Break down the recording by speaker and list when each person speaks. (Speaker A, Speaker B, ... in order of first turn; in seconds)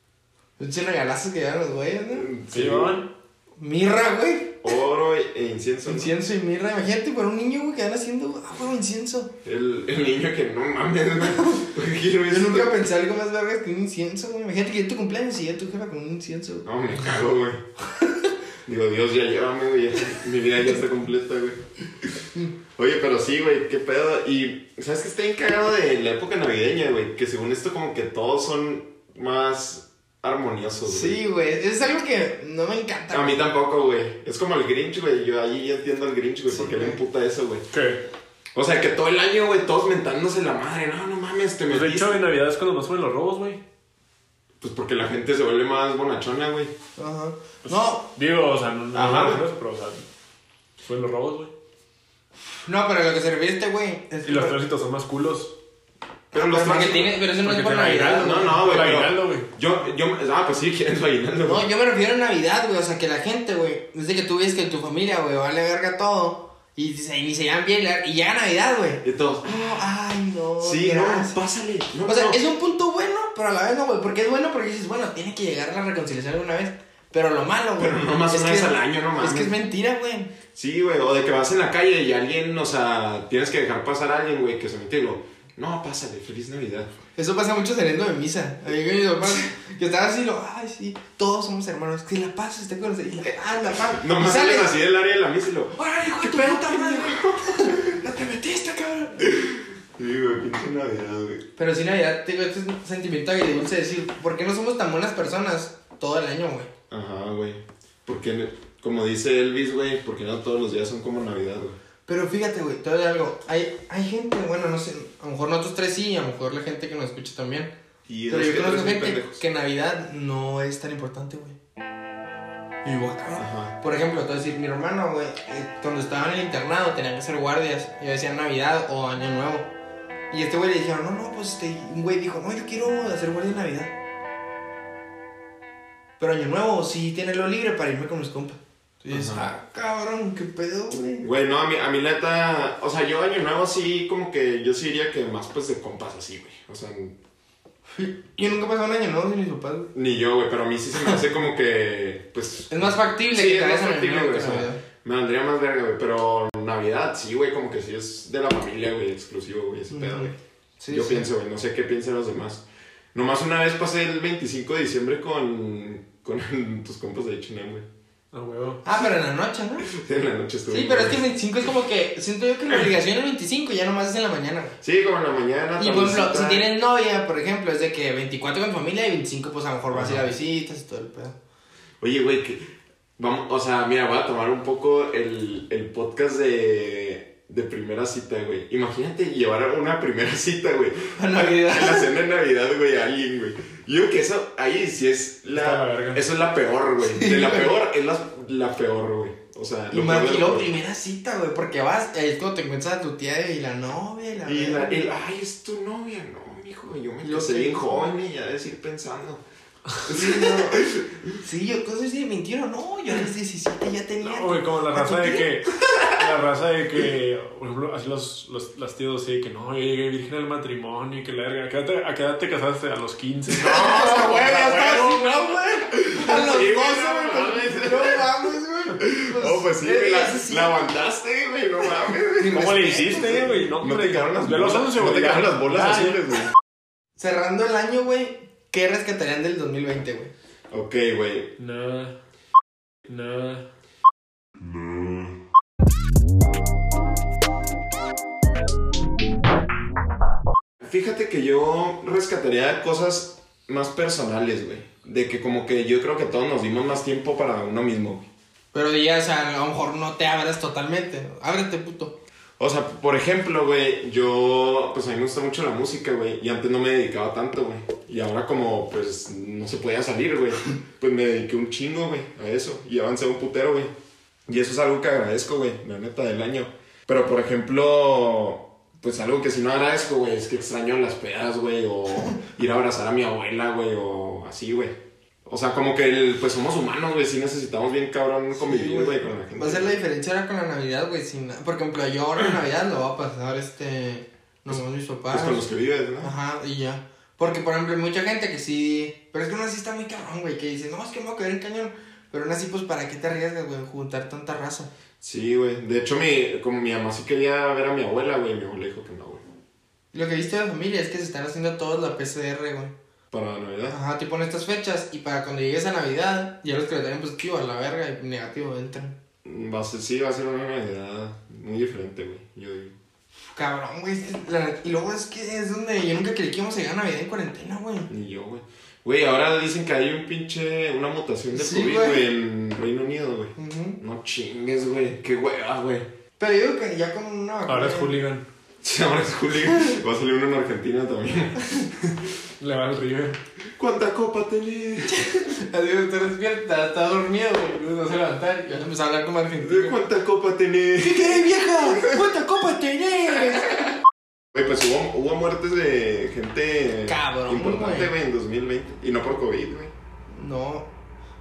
Speaker A: 0.6-2.3, 3.6-4.6, 5.9-9.3, 11.4-11.6, 12.3-16.7, 18.0-18.3, 30.9-33.4, 36.5-37.0, 47.0-48.1, 52.6-54.6, 56.3-58.9, 61.5-71.4, 72.0-80.3, 87.2-94.7, 95.8-99.3, 101.6-106.7, 112.1-117.7, 118.3-121.6, 122.8-129.7, 130.3-133.9, 136.2-141.3, 147.9-149.9, 152.7-154.8, 159.9-161.3, 168.8-169.9, 170.7-174.8, 175.8-181.4, 191.2-192.1, 197.1-197.7, 199.9-205.0, 207.2-208.1, 210.1-210.9, 211.4-215.5, 223.6-230.8, 232.4-233.5, 237.2-240.3, 258.7-262.2, 288.5-295.6, 296.2-304.9, 310.1-312.9, 313.9-319.1, 323.6-328.1, 331.5-332.3, 333.6-334.0, 336.4-338.1, 345.1-350.0, 351.0-353.8, 357.1-358.1, 360.3-360.9
Speaker B: 2.1-3.0, 4.6-6.1, 9.4-12.8, 16.6-17.6, 18.7-22.1, 22.8-31.2, 33.1-37.6, 38.5-42.2, 44.6-46.7, 48.9-49.5, 56.3-57.2, 58.2-61.7, 69.0-69.8, 70.6-72.4, 77.8-79.5, 80.5-86.9, 93.7-98.0, 99.2-101.4, 106.9-111.8, 118.1-119.4, 123.4-123.8, 139.1-139.5, 141.2-147.2, 149.9-160.3, 160.9-167.9, 169.9-171.2, 174.8-176.7, 179.9-180.3, 182.0-200.7, 204.4-209.4, 210.1-211.3, 223.7-225.0, 225.9-228.3, 229.0-236.5, 240.7-241.5, 244.9-245.3, 250.8-258.3, 262.6-273.9, 274.5-290.0, 294.7-296.3, 305.2-309.4, 313.3-314.0, 319.4-322.9, 328.1-336.1, 338.8-342.4, 343.8-345.2, 349.6-352.2, 354.5-359.9
Speaker C: 2.5-3.1, 37.7-38.0, 41.7-43.6, 47.7-50.0, 50.8-51.5, 54.2-55.6, 57.4-59.5, 168.3-168.8, 195.5-196.2, 214.2-225.5, 232.5-236.3, 241.6-242.2, 243.1-243.7, 337.7-338.5, 342.6-343.4